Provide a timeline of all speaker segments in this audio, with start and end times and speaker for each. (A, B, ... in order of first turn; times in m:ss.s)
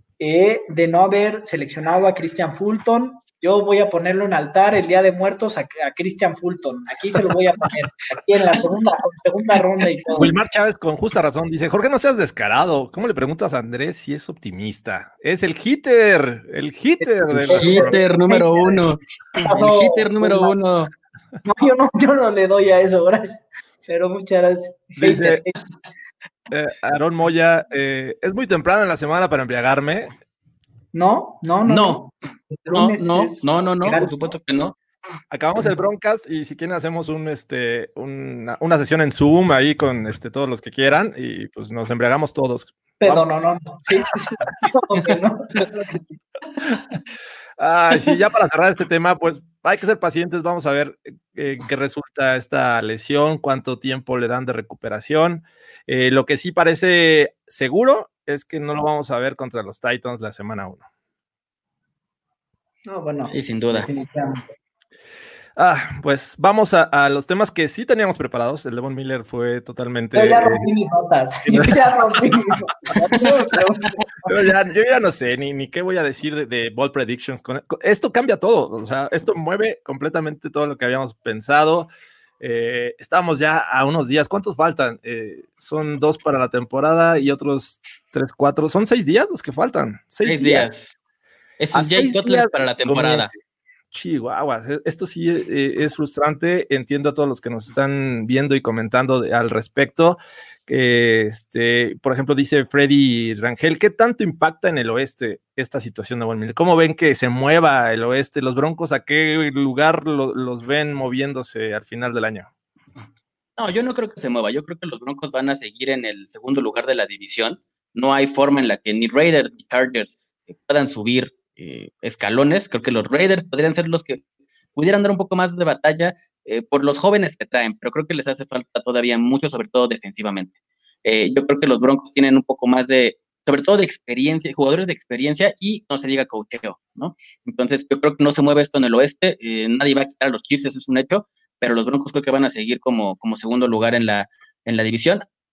0:00.2-0:10.3 A
0:10.1-0:18.0 B
0:17.3-0:20.5 A
0:17.5-0:20.9 C
0:21.4-0:25.6 A
0:25.0-0:25.4 B
0:26.5-0:30.1 B
0:30.9-0:34.3 A
0:31.7-0:32.0 C
0:32.7-0:34.8 C
0:35.3-0:43.2 B
0:43.0-0:46.2 A
0:47.6-1:00.8 B
1:02.8-1:04.5 A
1:03.3-1:03.9 C
1:05.6-1:10.7 B
1:10.1-1:14.3 A
1:11.4-1:12.4 B
1:14.2-1:30.6 B
1:30.2-1:31.0 C
1:31.6-1:33.3 C
1:31.7-1:33.4 B
1:33.9-1:52.5 B
1:53.6-2:04.2 C
2:04.7-2:25.2 C